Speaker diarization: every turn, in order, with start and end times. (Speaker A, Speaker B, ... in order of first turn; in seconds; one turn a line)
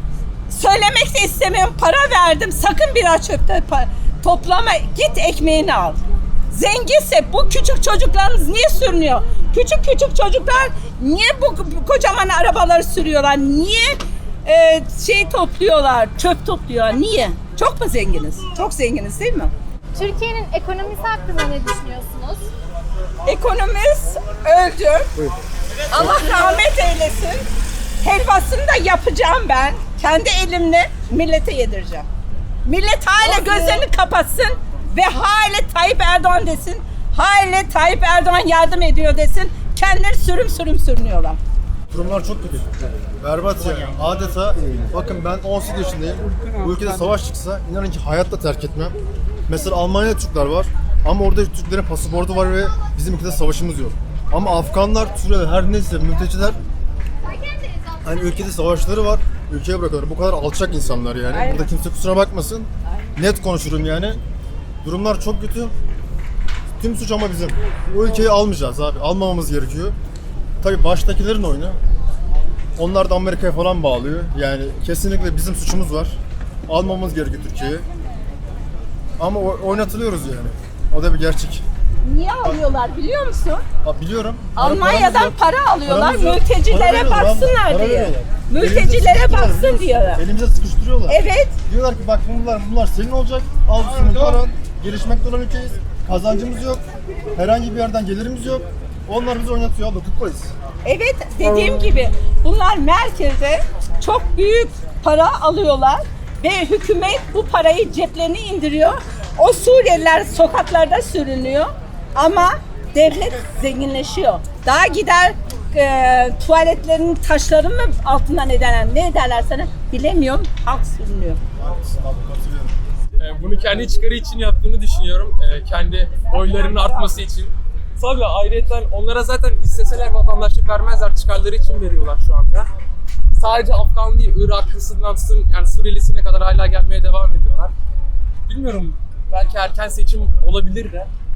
Speaker A: 0.5-19.5
Speaker B: 19.9-22.5
Speaker A: 23.2-25.1
Speaker A: 25.9-27.4
Speaker A: 28.0-32.1
Speaker A: 32.6-41.4
Speaker C: 41.9-42.6
Speaker A: 42.1-42.7
Speaker C: 43.2-46.0
Speaker A: 44.2-44.9
Speaker A: 45.5-47.1
Speaker C: 47.1-48.9
Speaker A: 48.0-48.9
Speaker C: 49.6-50.4
Speaker A: 49.9-50.6
Speaker C: 51.1-56.5
Speaker A: 52.1-52.9
Speaker A: 54.6-55.1
Speaker C: 58.0-62.6
Speaker A: 59.9-61.8
Speaker C: 63.2-64.1
Speaker A: 63.3-64.2
Speaker C: 64.8-65.7
Speaker C: 66.8-69.9
Speaker C: 70.6-71.7
Speaker C: 72.8-76.1
Speaker A: 73.3-73.5
Speaker A: 75.6-76.1
Speaker C: 76.7-77.2
Speaker A: 77.0-77.8
Speaker C: 79.2-81.4
Speaker A: 79.8-80.5
Speaker A: 81.4-83.6
Speaker C: 83.9-85.3
Speaker A: 84.5-95.7
Speaker C: 85.9-89.6
Speaker C: 90.2-91.1
Speaker C: 91.8-95.3
Speaker C: 96.1-96.8
Speaker A: 96.3-96.8
Speaker C: 97.4-100.3
Speaker A: 98.2-98.6
Speaker A: 99.3-122.4
Speaker D: 123.2-132.7
Speaker D: 133.3-137.7
Speaker D: 138.5-141.1